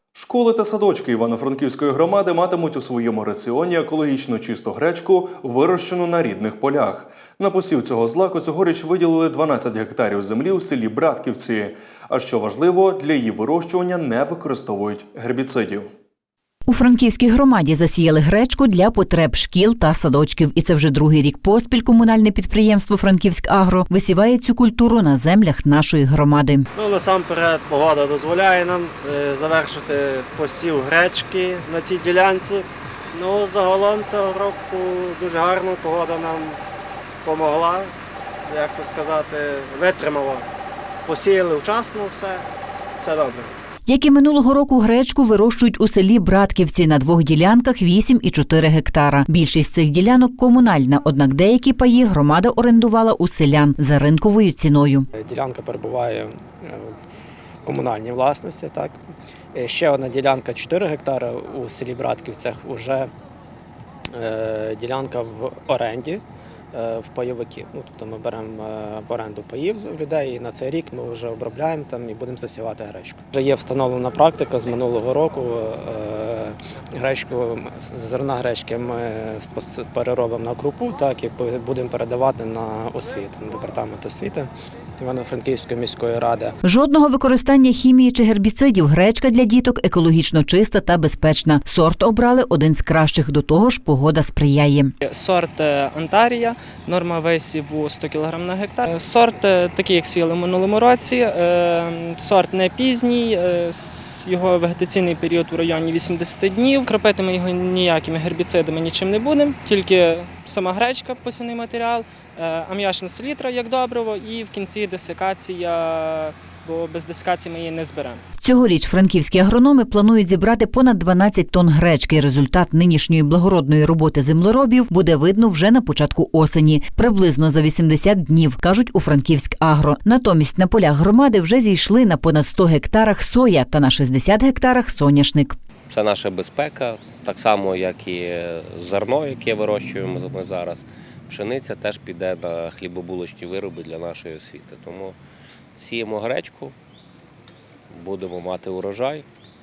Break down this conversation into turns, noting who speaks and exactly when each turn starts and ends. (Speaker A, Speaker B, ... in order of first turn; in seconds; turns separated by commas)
Speaker A: 0.1-15.9, Speaker B: 16.7-26.7, Speaker C: 26.8-32.6, Speaker C: 33.1-36.5, Speaker C: 37.3-37.9, Speaker C: 38.5-40.4, Speaker C: 41.1-42.4, Speaker C: 43.0-43.5, Speaker B: 43.9-55.1, Speaker D: 55.1-56.9, Speaker D: 57.6-59.0, Speaker D: 59.5-63.1, Speaker D: 64.2-66.2, Speaker D: 66.7-84.5, Speaker D: 85.0-86.5, Speaker B: 86.6-94.9, Speaker E: 95.0-118.2, Speaker B: 118.4-135.6, Speaker F: 135.9-145.2, Speaker F: 145.8-146.8, Speaker F: 147.9-149.2